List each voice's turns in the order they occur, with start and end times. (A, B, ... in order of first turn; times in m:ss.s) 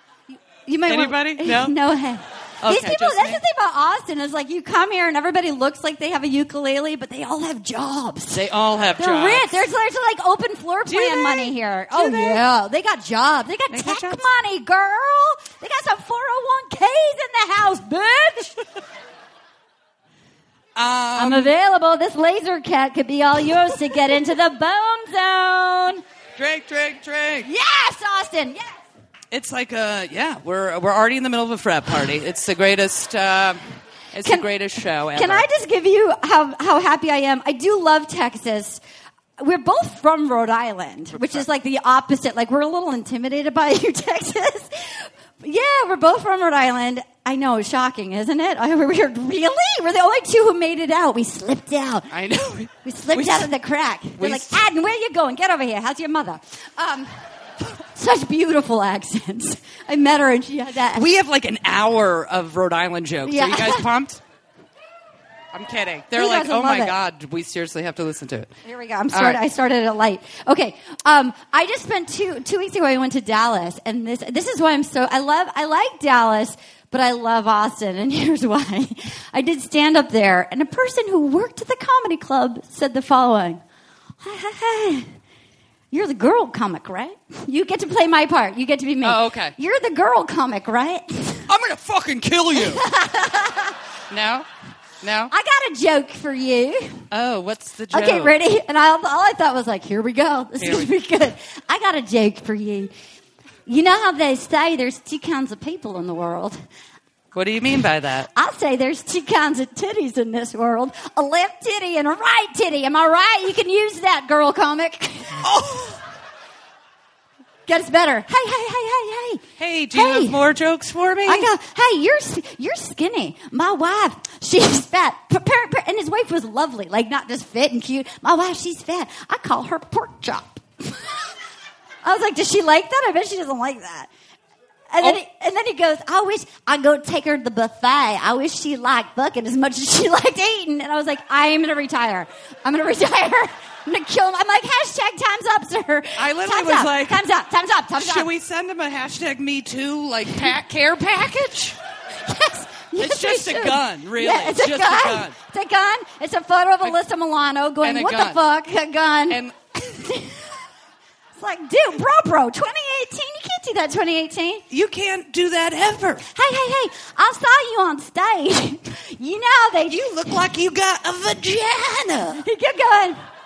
0:00.3-0:08.4 A
0:00.8-0:01.8 B
0:02.6-0:03.4 B
0:08.3-0:09.6 B
0:09.0-0:18.5 A
0:10.8-0:12.4 B
0:13.7-0:14.2 B
0:20.8-0:21.5 B
0:21.2-0:26.0 A
0:26.4-0:27.5 B
0:27.4-0:28.7 A
0:29.3-0:33.6 B
0:34.1-0:35.5 B
0:35.1-0:38.8 A
0:39.4-0:52.1 A
0:41.1-0:41.4 B
0:52.1-0:53.5 B
0:52.8-0:57.2 A
0:54.2-0:54.6 B
0:57.8-1:01.0 A
1:00.9-1:04.2 B
1:03.2-1:03.8 A
1:05.5-1:08.5 B
1:06.1-1:06.9 A
1:08.6-1:23.6 A
1:09.1-1:09.4 B
1:24.2-1:25.0 A
1:25.9-1:31.4 A
1:29.0-1:29.5 B
1:31.5-1:32.8 B
1:32.7-1:33.7 A
1:34.1-1:34.5 B
1:35.0-1:35.3 B
1:35.3-1:37.0 A
1:37.1-1:38.3 B
1:37.9-1:42.9 A
1:40.6-1:40.9 B
1:43.6-1:46.6 A
1:47.3-1:48.3 B
1:48.3-1:55.4 A
1:55.4-1:56.0 B
1:57.7-2:00.4 A
1:59.6-2:01.5 B
2:01.2-2:10.9 A
2:12.0-2:14.1 A
2:14.9-2:28.3 A
2:26.2-2:27.2 B
2:28.0-2:31.8 B
2:32.2-2:40.5 A
2:33.0-2:35.3 B
2:37.8-2:38.4 B
2:39.3-2:39.6 B
2:41.4-2:44.6 A
2:44.7-2:46.2 B
2:46.3-2:50.2 A
2:49.9-2:52.4 B
2:52.4-2:53.2 A